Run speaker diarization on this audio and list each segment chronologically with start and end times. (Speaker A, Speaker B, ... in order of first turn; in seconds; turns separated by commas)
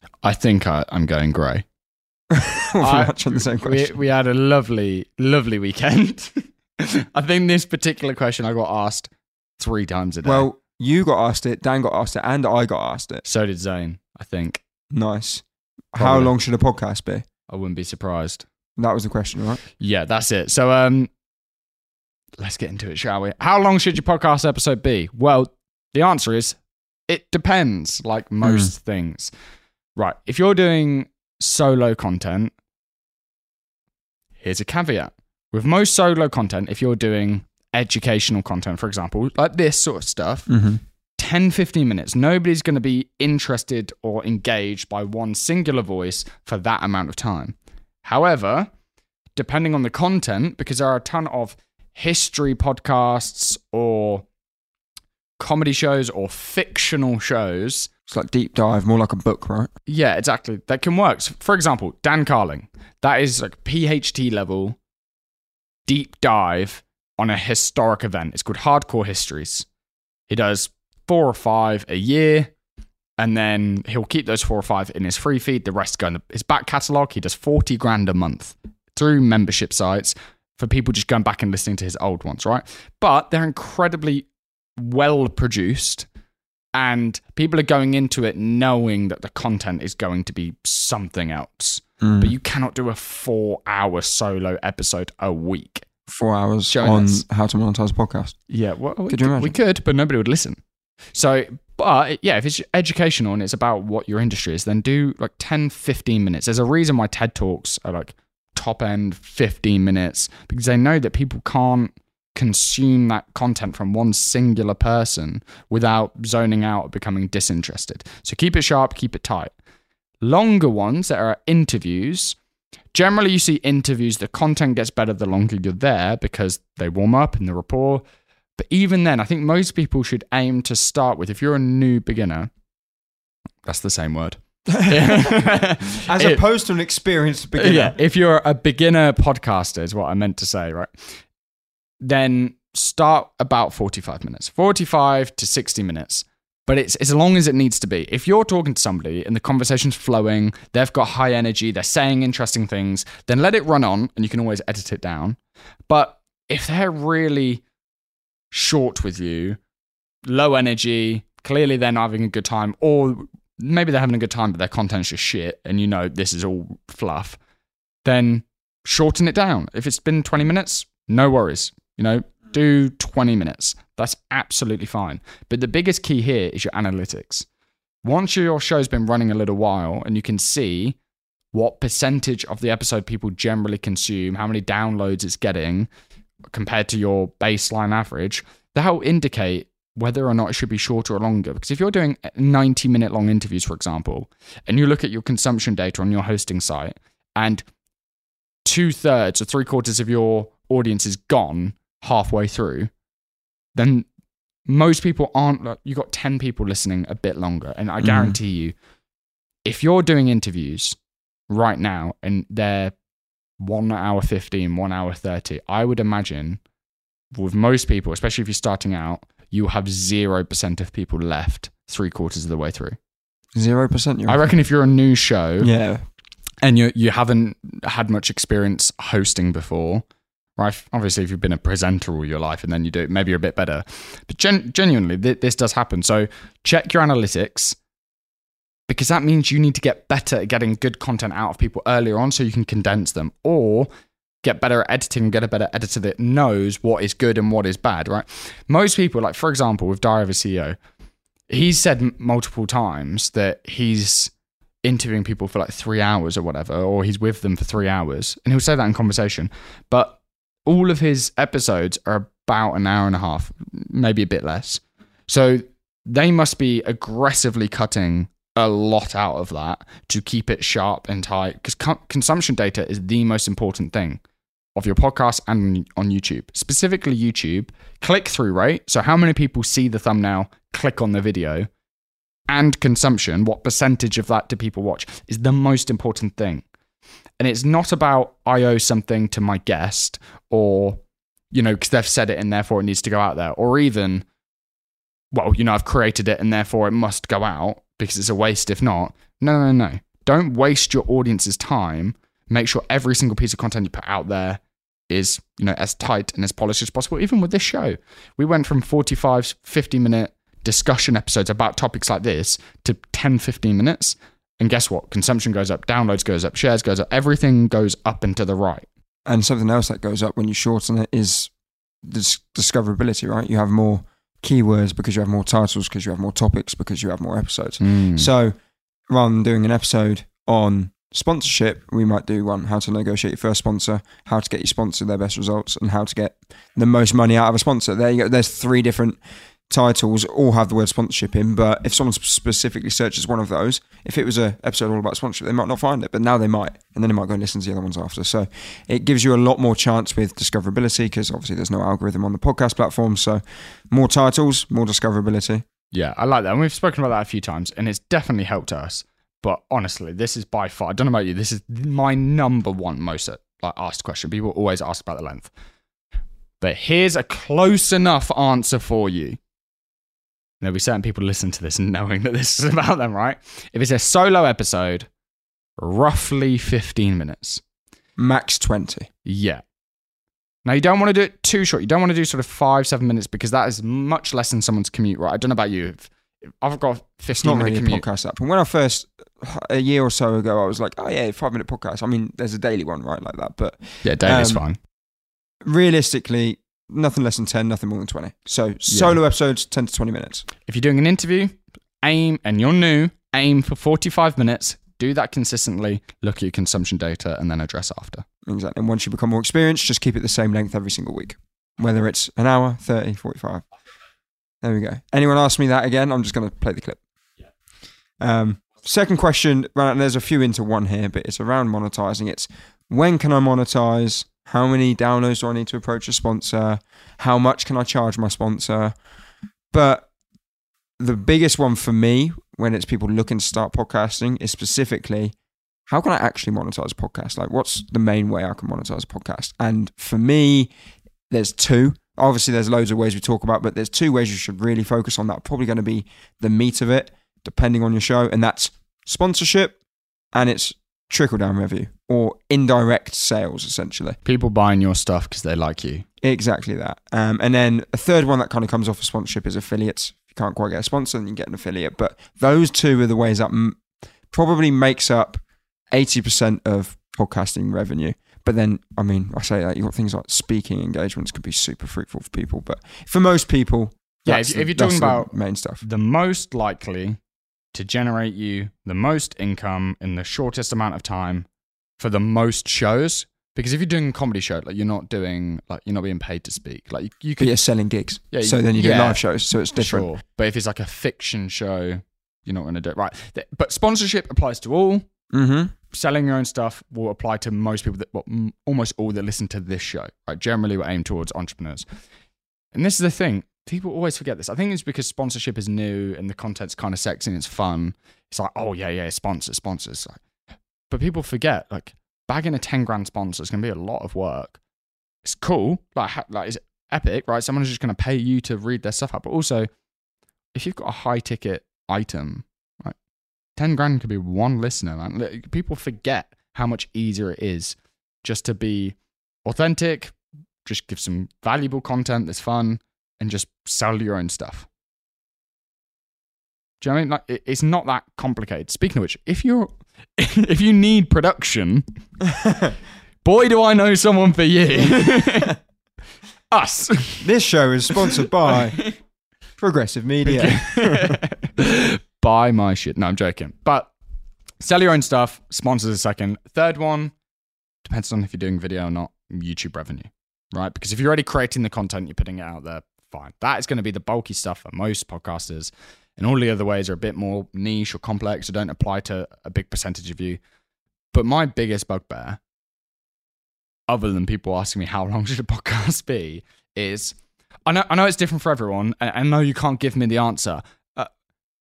Speaker A: 0.2-1.6, Speaker B: 2.3-3.9, Speaker A: 2.8-10.5, Speaker B: 10.2-13.2, Speaker A: 13.2-14.6, Speaker B: 14.9-15.4, Speaker B: 15.9-17.2, Speaker A: 16.0-16.3, Speaker A: 17.5-18.4, Speaker B: 18.8-19.6, Speaker A: 19.8-21.1, Speaker A: 22.4-29.3, Speaker B: 28.4-28.7, Speaker A: 30.0-32.5, Speaker A: 34.4-40.5, Speaker B: 40.5-40.8, Speaker A: 41.2-48.7, Speaker A: 49.4-54.3, Speaker A: 55.4-57.9, Speaker B: 58.1-59.7, Speaker A: 59.9-64.8, Speaker A: 65.9-69.7, Speaker A: 70.3-72.5, Speaker A: 73.2-86.1, Speaker A: 86.8-95.9, Speaker B: 92.0-92.3, Speaker B: 96.1-98.4, Speaker A: 96.7-97.2, Speaker A: 98.5-100.6, Speaker B: 99.1-99.5, Speaker A: 101.1-119.5, Speaker A: 120.2-122.4, Speaker A: 122.9-128.0, Speaker A: 128.6-132.5, Speaker A: 133.7-136.4, Speaker B: 134.7-138.0, Speaker A: 137.6-141.2, Speaker A: 142.0-157.6, Speaker A: 158.5-159.6, Speaker A: 160.3-167.4, Speaker A: 168.0-177.5, Speaker A: 178.0-181.0, Speaker A: 181.5-185.9, Speaker A: 186.5-197.6, Speaker A: 198.7-202.9, Speaker A: 203.8-204.1, Speaker A: 204.7-208.8, Speaker B: 208.0-208.4, Speaker A: 209.7-211.0, Speaker A: 211.5-213.0, Speaker A: 213.6-216.6, Speaker A: 217.3-223.0, Speaker B: 223.6-224.4, Speaker A: 224.3-225.7, Speaker B: 225.6-226.0, Speaker A: 226.6-230.1, Speaker A: 230.6-237.8, Speaker A: 238.9-243.9, Speaker A: 244.4-250.8, Speaker A: 251.5-254.3, Speaker A: 254.8-274.2, Speaker A: 274.8-281.7, Speaker A: 282.5-286.6, Speaker A: 287.4-294.3, Speaker A: 295.3-318.9, Speaker B: 319.3-321.5, Speaker B: 322.0-328.5, Speaker A: 327.8-328.3, Speaker B: 329.1-339.2, Speaker B: 339.7-355.6, Speaker A: 355.9-365.5, Speaker A: 366.6-369.4, Speaker A: 370.6-375.1, Speaker A: 375.8-377.6, Speaker B: 378.2-379.1, Speaker A: 379.3-379.6, Speaker A: 380.6-388.1, Speaker B: 387.4-394.6, Speaker A: 394.1-394.8, Speaker B: 395.6-400.5, Speaker A: 398.9-399.2, Speaker A: 400.7-408.2, Speaker B: 408.5-413.6, Speaker B: 414.6-417.0, Speaker B: 418.2-429.0, Speaker B: 429.7-430.1, Speaker B: 431.0-435.4, Speaker B: 435.9-440.7, Speaker B: 441.3-449.8, Speaker B: 450.3-454.2, Speaker A: 454.2-456.1, Speaker B: 456.2-463.8, Speaker B: 464.3-465.4, Speaker B: 465.9-475.8, Speaker A: 474.3-475.3, Speaker A: 475.8-477.2, Speaker A: 477.7-481.5, Speaker A: 482.0-487.6, Speaker B: 487.4-490.1, Speaker A: 488.3-495.1, Speaker B: 495.3-495.7, Speaker A: 495.9-501.9, Speaker A: 502.7-510.2, Speaker A: 510.9-514.6, Speaker A: 515.2-519.7, Speaker A: 520.5-523.0, Speaker A: 523.6-534.7, Speaker A: 536.8-541.9, Speaker B: 542.4-542.7, Speaker A: 543.2-545.6, Speaker A: 546.5-547.2, Speaker B: 547.2-548.8, Speaker B: 549.6-551.2, Speaker A: 550.3-553.9, Speaker A: 554.6-557.1, Speaker A: 557.8-570.4, Speaker A: 571.1-572.4, Speaker A: 573.9-577.1, Speaker A: 577.7-581.1